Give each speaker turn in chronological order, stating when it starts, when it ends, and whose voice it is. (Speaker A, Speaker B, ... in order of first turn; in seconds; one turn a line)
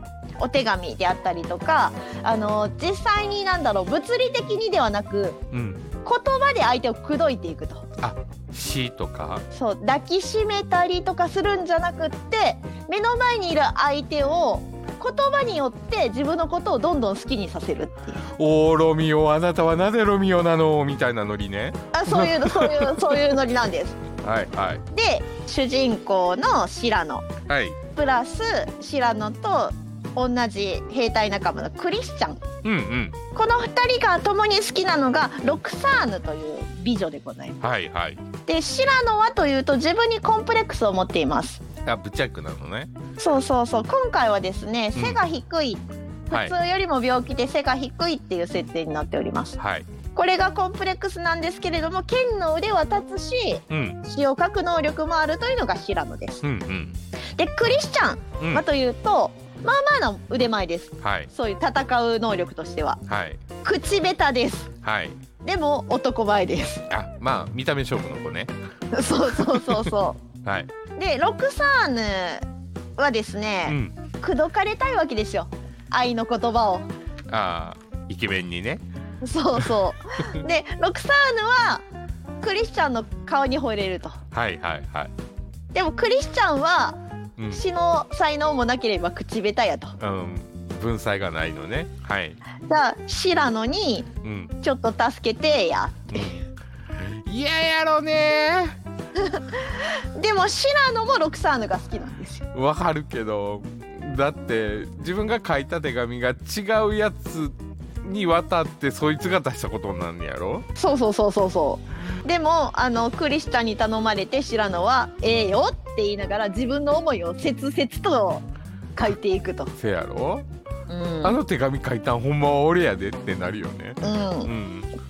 Speaker A: 0.4-5.4
Speaker B: 5.5-5.8
Speaker A: 6.0-7.8
Speaker B: 8.0-9.4
Speaker A: 9.5-18.2
Speaker B: 18.3-23.3
Speaker A: 21.9-24.0
Speaker B: 24.2-24.8
Speaker A: 24.9-27.2
Speaker B: 27.5-27.8
Speaker A: 27.9-32.4
Speaker B: 32.6-33.2
Speaker A: 33.3-37.6
Speaker B: 37.6-38.2
Speaker A: 38.5-41.6
Speaker B: 41.9-42.9
Speaker A: 43.2-49.6
Speaker B: 45.0-45.2
Speaker B: 49.6-49.9
Speaker A: 50.1-56.4
Speaker B: 53.7-54.0
Speaker B: 56.4-57.0
Speaker A: 57.4-63.0
Speaker B: 58.4-58.6
Speaker B: 61.0-61.3
Speaker B: 63.1-63.4
Speaker A: 63.6-64.7
Speaker B: 64.8-65.2
Speaker A: 65.4-66.9
Speaker B: 66.9-68.5
Speaker A: 68.9-70.2
Speaker B: 69.3-69.9
Speaker B: 70.4-70.7
Speaker A: 71.0-72.5
Speaker A: 73.0-76.9
Speaker B: 73.7-74.0
Speaker B: 77.3-78.8
Speaker A: 79.2-81.8
Speaker A: 82.4-84.2
Speaker B: 84.3-85.1
Speaker A: 85.7-87.0
Speaker B: 87.4-87.6
Speaker A: 87.5-90.0
Speaker B: 90.0-92.4
Speaker A: 92.7-94.1
Speaker B: 94.2-94.5
Speaker A: 94.6-96.2
Speaker B: 96.1-96.5
Speaker B: 97.0-98.8
Speaker A: 99.2-102.5
Speaker B: 102.5-110.7
Speaker A: 110.8-118.5
Speaker A: 119.0-119.7
Speaker B: 119.8-120.5
Speaker A: 120.9-121.4
Speaker B: 121.2-124.9
Speaker A: 124.0-124.5